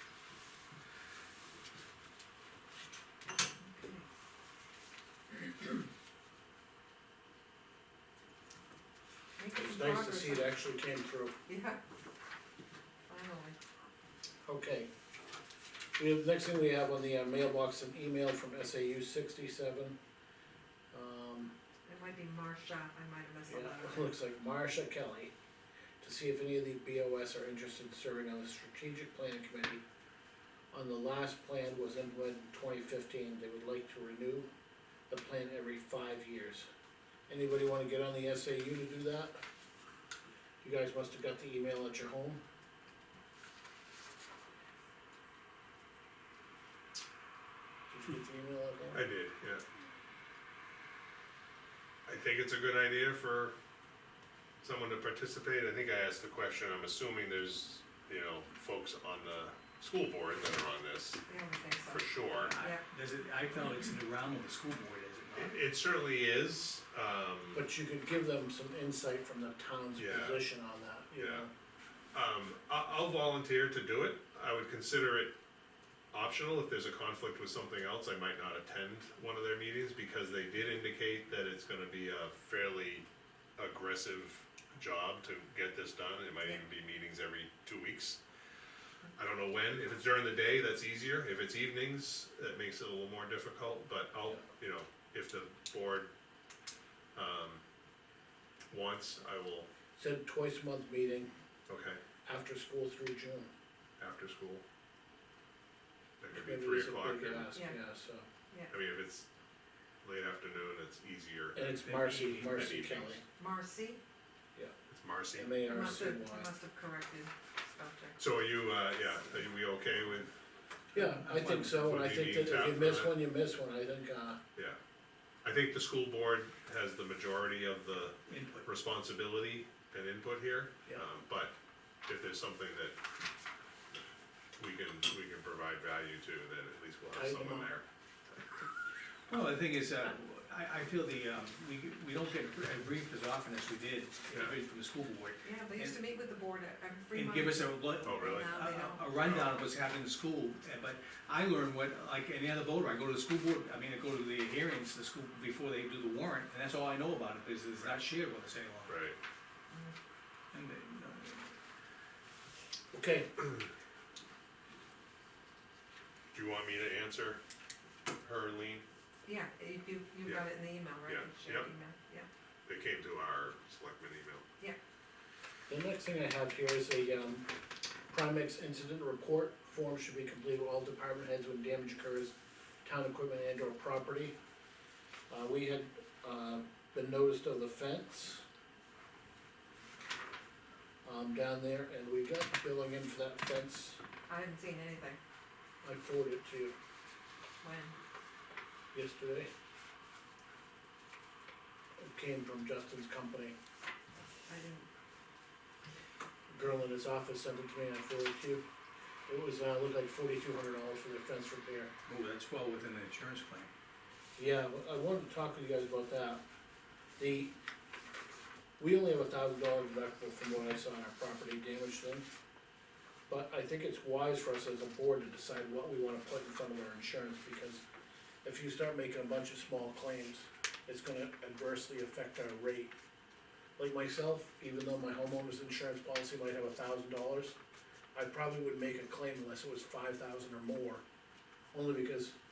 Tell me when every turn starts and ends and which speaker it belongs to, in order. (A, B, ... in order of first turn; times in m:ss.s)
0:03.6-0:04.0 A
0:09.4-0:10.5 A
0:09.5-0:11.3 B
0:11.5-0:11.8 A
0:13.1-0:13.6 A
0:14.4-0:14.9 B
0:16.0-0:20.0 B
0:20.9-0:21.5 B
0:21.8-0:24.1 A
0:23.5-0:25.3 B
0:26.0-0:29.8 B
0:30.7-0:34.5 B
0:35.1-0:36.7 B
0:37.3-0:39.4 B
0:40.6-0:42.4 B
0:47.9-0:49.1 B
0:48.9-0:49.6 C
0:52.0-0:53.5 C
0:54.6-1:01.2 C
1:01.3-1:02.8 A
1:01.9-1:02.5 C
1:02.4-1:05.6 D
1:05.3-1:07.6 C
1:07.5-1:11.5 B
1:10.0-1:10.4 C
1:11.2-1:11.4 C
1:12.1-1:15.3 C
1:16.1-1:23.0 C
1:23.6-1:28.2 C
1:29.2-1:36.1 C
1:37.1-1:37.6 C
1:38.7-1:39.7 C
1:40.0-1:41.3 B
1:41.7-1:42.0 C
1:42.2-1:43.5 B
1:44.0-1:44.6 C
1:46.2-1:47.5 C
1:46.3-1:48.2 B
1:47.5-1:47.8 A
1:48.7-1:49.3 C
1:50.0-1:51.8 C
1:51.5-1:53.2 B
1:51.8-1:52.6 D
1:52.3-1:53.2 C
1:53.4-1:54.0 A
1:54.9-1:55.8 C
1:55.3-1:56.5 B
1:55.6-1:58.2 A
1:58.2-2:00.3 C
2:00.9-2:04.4 B
2:00.9-2:01.9 D
2:01.7-2:03.1 C
2:05.4-2:11.5 C
2:08.3-2:08.7 D
2:12.0-2:13.0 C
2:14.6-2:17.8 C
2:17.1-2:17.7 B
2:19.3-2:26.0 D
2:25.4-2:29.0 A
2:27.1-2:39.0 D
2:28.0-2:28.5 C
2:29.2-2:29.6 C
2:38.9-2:39.2 C
2:39.7-2:39.9 A
2:40.5-2:41.5 D
2:42.9-2:43.3 B
2:46.3-2:47.4 C
2:48.2-2:48.8 C
2:49.2-2:52.3 A
2:51.0-2:51.7 C
2:52.6-2:54.4 C
2:55.7-2:57.5 B
2:58.1-3:04.3 B
3:05.3-3:08.4 B
3:11.0-3:14.0 B
3:14.3-3:15.2 A
3:15.8-3:16.7 B
3:17.6-3:18.0 A
3:18.9-3:19.5 B
3:22.0-3:23.6 B
3:24.5-3:24.9 A
3:26.5-3:28.6 B
3:29.3-3:31.9 B
3:32.1-3:33.7 D
3:34.4-3:36.4 B
3:37.2-3:37.5 B
3:38.8-3:42.2 B
3:43.3-3:47.8 B
3:48.4-3:52.9 B
3:53.8-3:57.6 B
3:58.1-4:01.0 B
4:01.7-4:02.4 B